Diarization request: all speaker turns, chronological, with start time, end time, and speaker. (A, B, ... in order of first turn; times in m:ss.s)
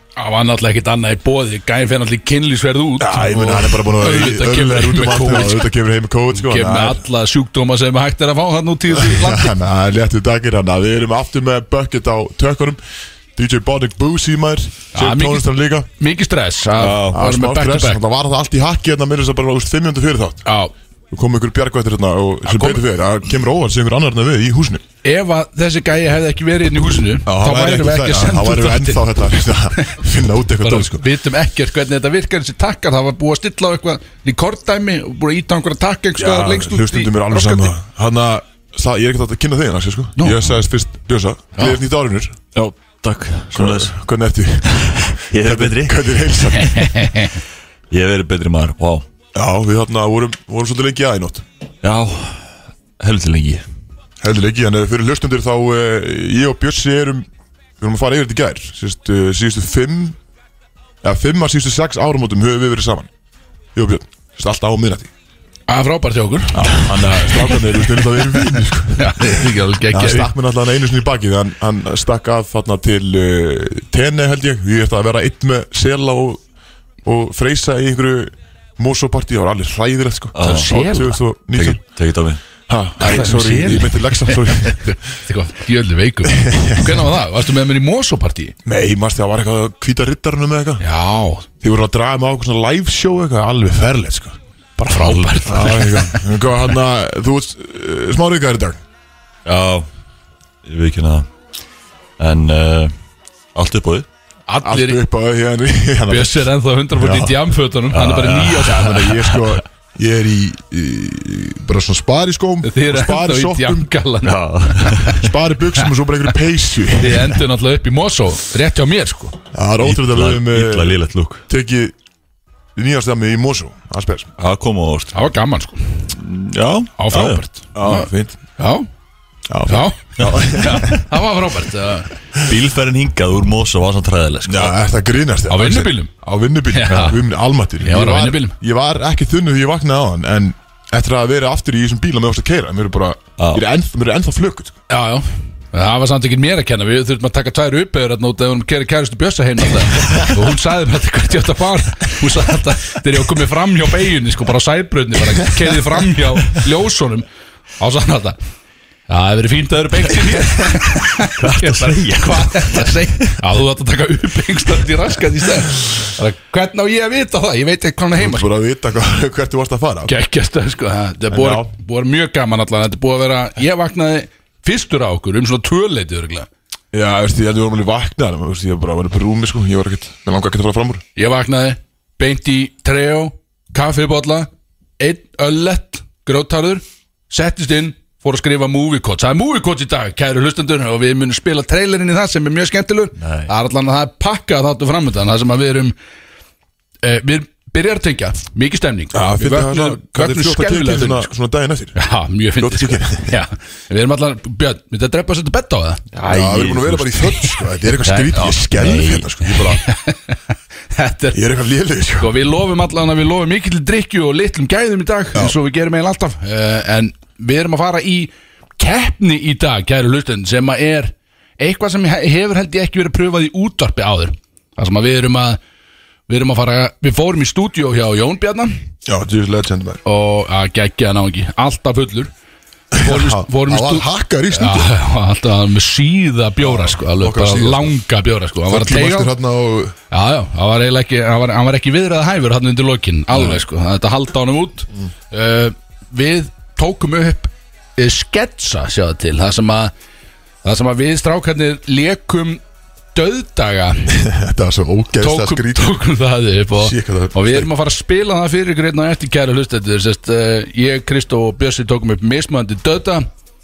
0:00.2-0:05.7 A
0:03.0-0:07.0 B
0:06.3-0:09.5 A
0:08.9-0:12.8 B
0:13.4-0:15.9 B
0:14.9-0:18.0 A
0:16.8-0:17.2 C
0:17.1-0:20.4 B
0:20.4-0:20.7 A
0:21.1-0:24.8 B
0:22.5-0:22.8 A
0:25.0-0:30.0 A
0:27.3-0:31.1 B
0:30.6-0:37.7 A
0:36.2-0:42.4 B
0:42.6-0:44.0 C
0:43.5-0:47.0 B
0:44.7-0:46.3 C
0:46.6-0:47.4 A
0:47.9-0:49.0 C
0:49.4-0:51.4 B
0:51.8-0:53.6 C
0:54.2-0:57.3 B
0:57.8-1:00.2 B
1:01.0-1:03.1 B
1:03.8-1:05.1 B
1:05.7-1:10.3 A
1:06.5-1:16.4 B
1:17.0-1:21.8 B
1:20.4-1:20.7 C
1:20.4-1:21.2 A
1:21.6-1:22.4 C
1:22.7-1:25.0 B
1:23.0-1:28.6 A
1:26.2-1:27.1 B
1:28.6-1:30.8 B
1:30.8-1:31.5 A
1:31.6-1:34.4 B
1:34.8-1:36.3 A
1:35.0-1:35.4 C
1:35.4-1:38.8 B
1:39.5-1:39.9 C
1:40.7-1:41.3 C
1:42.2-1:42.9 C
1:43.6-1:44.1 C
1:44.5-1:45.0 A
1:44.6-1:47.5 B
1:46.1-1:49.0 A
1:47.9-1:49.5 C
1:48.5-1:53.9 B
1:52.6-1:55.2 A
1:54.2-1:55.2 C
1:55.2-1:57.4 B
1:57.0-1:59.4 A
1:59.5-2:01.9 B
1:59.8-2:01.4 C
2:02.8-2:04.3 B
2:04.4-2:05.1 C
2:05.1-2:05.8 A
2:06.2-2:07.4 C
2:07.0-2:08.9 A
2:07.8-2:08.4 B
2:09.5-2:11.0 B
2:09.7-2:12.1 A
2:12.4-2:14.7 C
2:14.5-2:24.8 B
2:15.5-2:16.1 A
2:16.7-2:17.2 A
2:17.8-2:18.6 A
2:23.4-2:23.6 C
2:24.9-2:37.2 A
2:37.8-2:38.4 A
2:39.1-2:48.5 A
2:41.1-2:43.4 C
2:48.2-2:50.2 B
2:50.1-2:56.5 A
2:51.3-2:51.7 B
2:56.9-3:01.0 B
3:01.2-3:15.9 A
3:13.2-3:13.5 C
3:17.0-3:21.3 A
3:19.1-3:22.0 B
3:22.0-3:26.0 A
3:22.6-3:23.4 B
3:26.1-3:27.2 C
3:26.2-3:29.8 B
3:28.0-3:28.7 A
3:28.8-3:29.3 C
3:29.8-3:30.4 A
3:31.0-3:31.4 A
3:31.3-3:32.4 B
3:32.2-3:45.6 A
3:46.3-3:48.8 A
3:49.0-3:50.0 B
3:50.0-3:52.3 A
3:52.9-3:54.9 B
3:53.0-3:59.3 A
3:56.6-3:58.0 B
3:58.7-3:59.9 B
4:00.1-4:09.9 A
4:10.6-4:12.6 A
4:13.2-4:14.2 A
4:14.1-4:16.0 B
4:15.2-4:23.3 A
4:16.7-4:17.7 B